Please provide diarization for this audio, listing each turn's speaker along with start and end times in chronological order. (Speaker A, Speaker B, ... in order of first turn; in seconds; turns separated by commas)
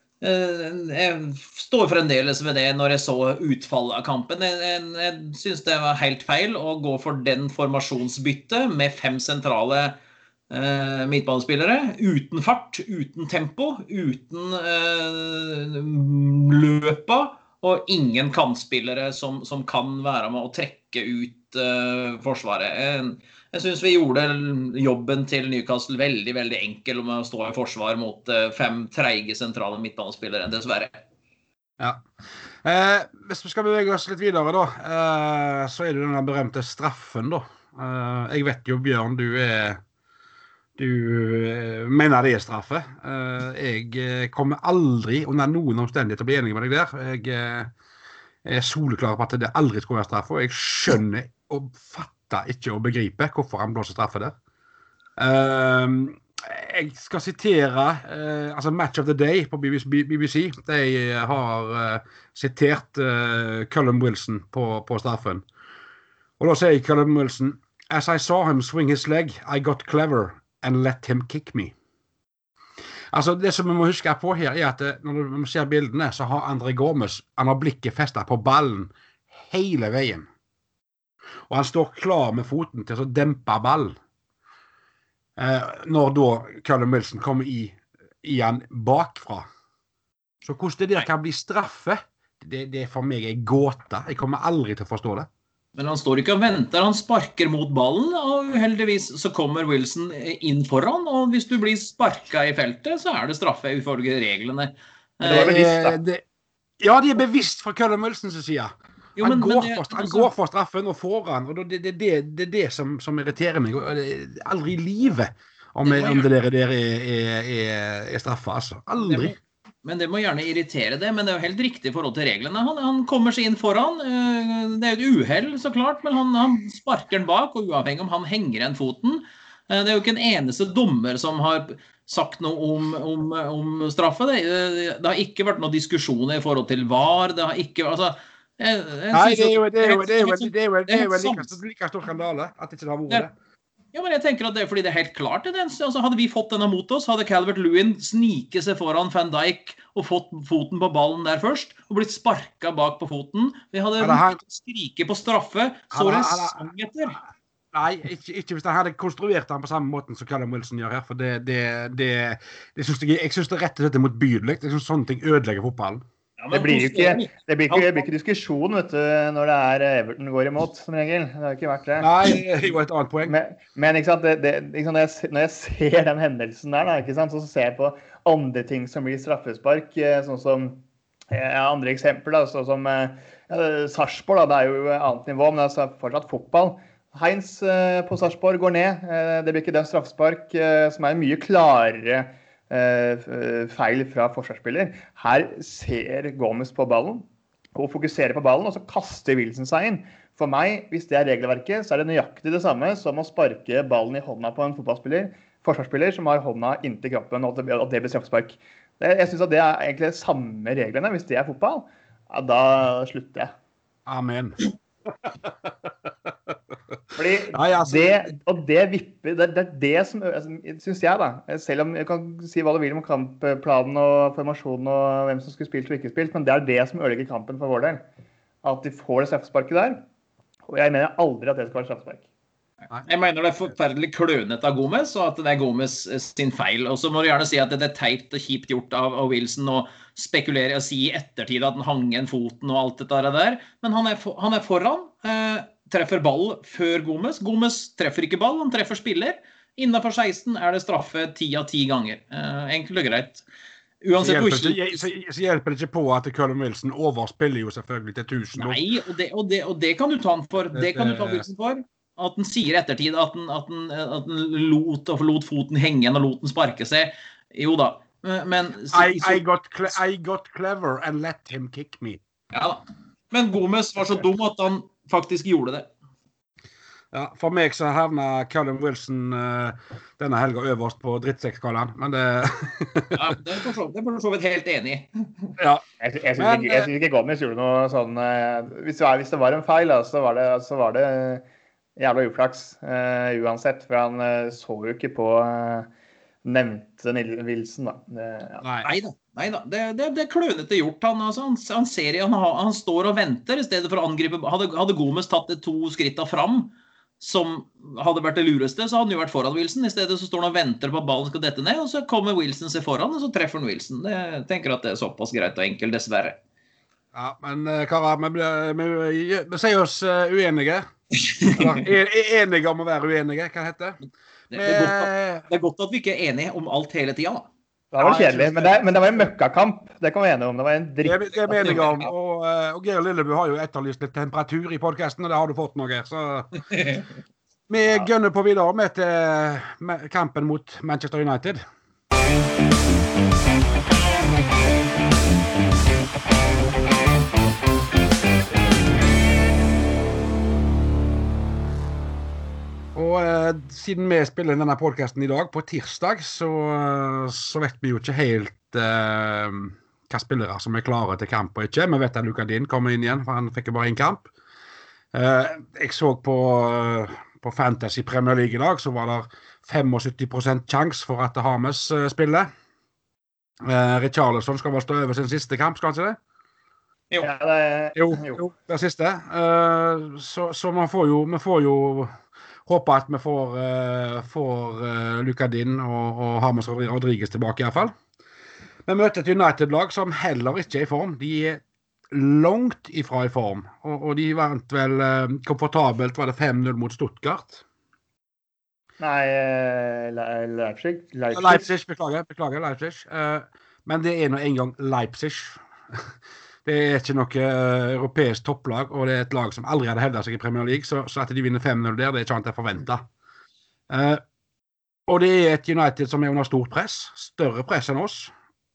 Speaker A: 0.2-9.9, Speaker A: 10.5-30.9, Speaker B: 31.8-32.0, Speaker B: 32.6-39.8, Speaker B: 40.8-47.7, Speaker B: 48.5-54.4, Speaker B: 55.2-65.5, Speaker B: 66.4-71.7, Speaker B: 73.1-78.9, Speaker B: 79.5-80.3, Speaker B: 81.5-84.0, Speaker B: 85.4-89.5, Speaker B: 90.4-95.3, Speaker A: 95.8-106.0, Speaker B: 105.2-106.2, Speaker B: 106.8-119.3, Speaker A: 109.2-110.3, Speaker A: 115.8-116.3, Speaker A: 119.0-141.5, Speaker B: 139.1-143.3, Speaker A: 143.9-157.2, Speaker B: 154.0-154.4, Speaker B: 155.9-156.7, Speaker B: 157.7-166.0, Speaker A: 166.4-168.0, Speaker C: 166.5-172.1, Speaker B: 172.0-173.3, Speaker C: 173.3-213.5, Speaker B: 214.1-214.6, Speaker B: 216.3-216.5, Speaker C: 217.2-228.0, Speaker B: 217.5-218.2, Speaker C: 228.6-230.0, Speaker C: 230.7-232.2, Speaker A: 233.0-253.4, Speaker A: 254.0-255.0, Speaker B: 254.2-258.8, Speaker A: 258.6-269.4, Speaker B: 260.8-261.5, Speaker B: 268.9-272.2, Speaker A: 272.5-275.9, Speaker B: 277.1-283.4, Speaker A: 283.1-285.5, Speaker B: 285.6-285.8, Speaker C: 286.0-291.4, Speaker B: 286.4-286.9, Speaker C: 292.0-295.9, Speaker C: 296.4-298.6, Speaker B: 298.6-298.9, Speaker A: 298.8-316.4, Speaker B: 317.1-320.9, Speaker A: 321.3-321.8, Speaker B: 321.6-324.0, Speaker A: 324.5-327.5, Speaker B: 324.5-325.4, Speaker C: 327.9-332.0, Speaker A: 328.0-328.6, Speaker B: 331.0-336.5, Speaker A: 336.7-337.1, Speaker B: 337.7-341.6, Speaker B: 352.9-364.3, Speaker B: 365.1-372.5, Speaker B: 373.6-376.2, Speaker C: 377.2-378.4, Speaker B: 378.0-382.1, Speaker B: 382.7-387.9, Speaker B: 388.9-397.6, Speaker C: 399.0-401.7, Speaker B: 401.3-406.1, Speaker B: 406.6-413.1, Speaker B: 413.9-414.2, Speaker B: 415.1-418.3